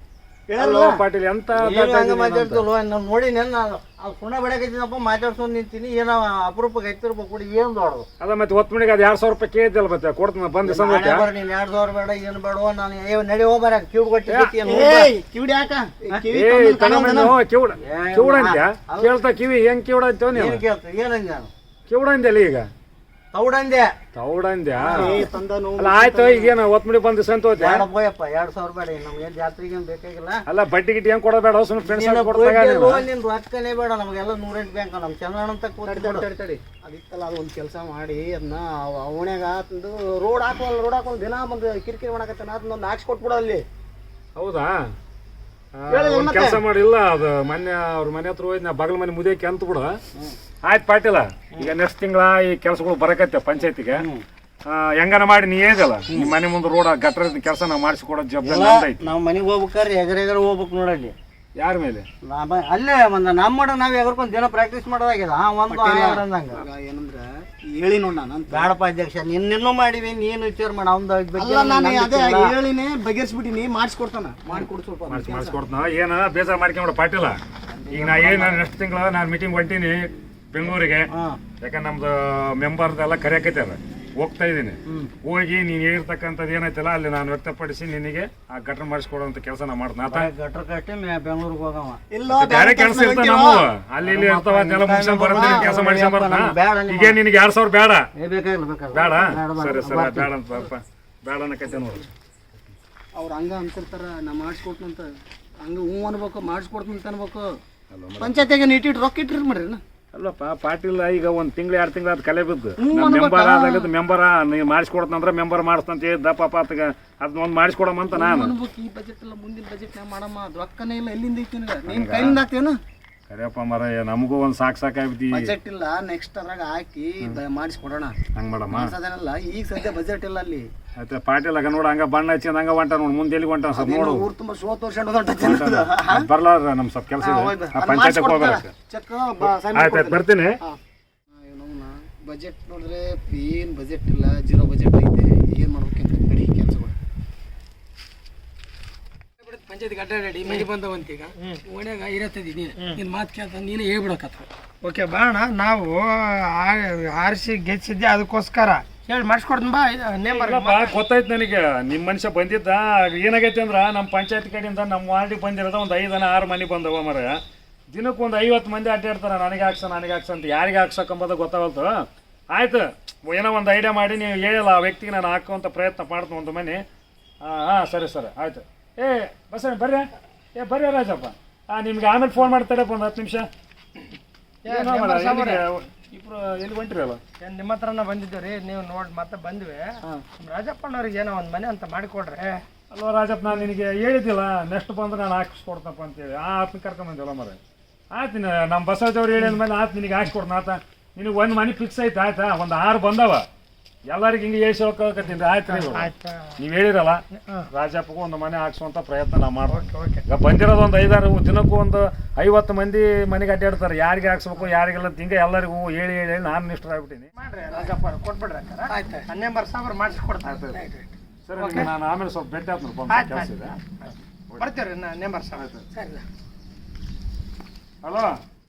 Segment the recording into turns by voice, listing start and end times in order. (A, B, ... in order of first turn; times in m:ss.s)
0:00.5-0:00.9 A
0:00.6-0:02.6 B
0:01.6-0:08.1 C
0:08.2-0:11.3 B
0:10.6-0:15.1 C
0:14.3-0:14.6 B
0:14.6-0:17.3 A
0:16.3-0:20.6 B
0:17.8-0:19.1 C
0:20.3-0:21.5 C
0:21.9-0:22.7 B
0:23.3-0:23.9 C
0:24.1-0:27.9 B
0:24.8-0:26.6 A
0:24.8-0:25.3 C
0:27.6-0:30.4 C
0:30.5-0:33.0 B
0:31.8-0:36.3 C
0:35.9-0:43.6 A
0:44.4-0:44.7 B
0:45.8-0:50.0 B
0:45.9-0:46.6 A
0:50.6-0:54.1 B
0:54.0-0:54.2 C
0:54.7-0:59.0 B
0:58.4-1:01.2 C
1:01.6-1:02.1 B
1:02.2-1:06.6 C
1:05.7-1:08.7 A
1:08.5-1:12.6 C
1:11.4-1:15.6 A
1:15.1-1:17.4 B
1:17.9-1:18.4 A
1:17.9-1:21.1 B
1:21.1-1:21.4 C
1:21.6-1:30.3 B
1:30.1-1:32.0 C
1:32.1-1:33.7 A
1:32.3-1:38.1 B
1:34.0-1:37.2 C
1:35.3-1:35.7 A
1:38.2-1:40.3 C
1:38.9-1:42.1 B
1:43.2-1:45.1 A
1:45.6-1:47.5 A
1:47.9-1:48.4 B
1:48.2-1:49.8 A
1:50.1-1:58.6 B
1:52.8-1:53.9 A
1:58.1-2:02.8 A
2:01.9-2:02.4 B
2:03.3-2:05.5 B
2:05.3-2:08.2 A
2:08.4-2:08.9 B
2:08.7-2:10.7 A
2:11.0-2:14.3 B
2:13.7-2:16.3 A
2:15.4-2:18.7 B
2:17.2-2:20.8 A
2:19.4-2:20.6 B
2:21.3-2:26.9 A
2:29.4-2:34.5 D
2:30.4-2:30.7 E
2:32.8-2:33.0 E
2:34.8-2:40.9 E
2:40.3-2:47.4 B
2:47.9-2:56.8 B
2:57.4-3:03.5 B
3:04.6-3:05.6 E
3:04.7-3:07.2 B
3:07.4-3:12.6 E
3:12.9-3:17.6 B
3:18.1-3:23.4 B
3:24.1-3:27.2 B
3:25.7-3:26.5 E
3:27.4-3:27.7 E
3:27.7-3:37.3 B
3:29.7-3:30.2 E
3:37.4-3:41.9 E
3:41.5-3:43.8 B
3:43.1-3:46.2 E
3:45.6-3:45.9 B
3:48.0-3:48.3 B